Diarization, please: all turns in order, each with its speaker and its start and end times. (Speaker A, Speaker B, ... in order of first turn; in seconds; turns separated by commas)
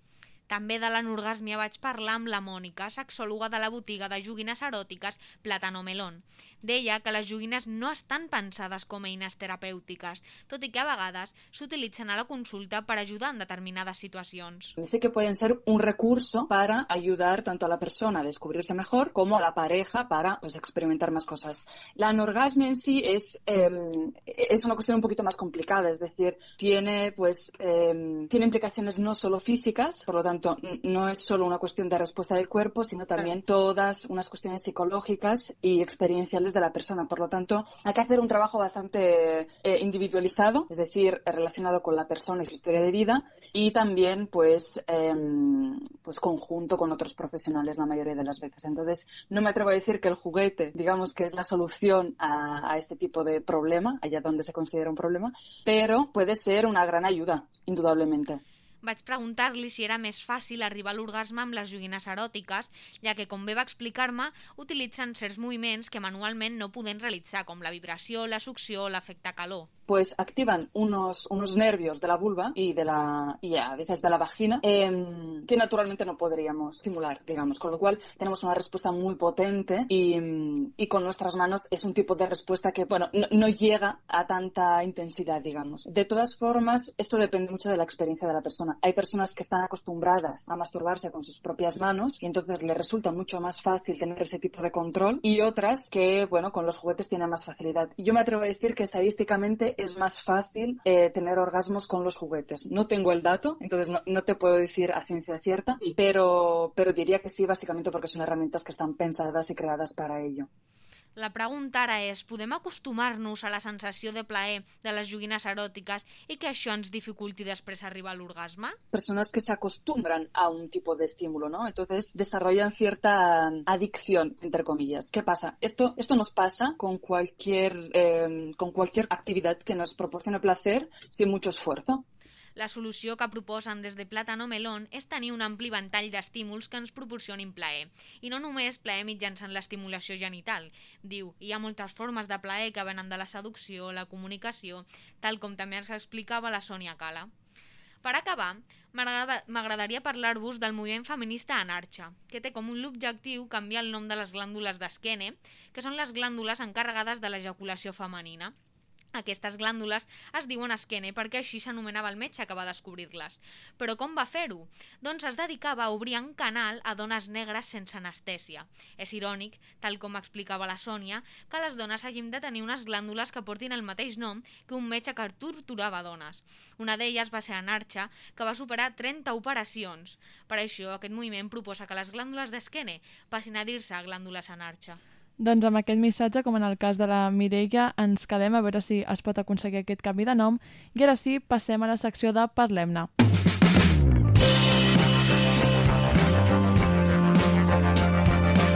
Speaker A: 0.5-14.8, Speaker B: 14.8-58.4, Speaker A: 58.8-69.7, Speaker B: 69.9-110.5, Speaker A: 111.2-118.8, Speaker B: 118.9-132.0, Speaker A: 132.6-147.3, Speaker A: 148.0-158.5, Speaker A: 159.1-185.0, Speaker C: 185.4-193.1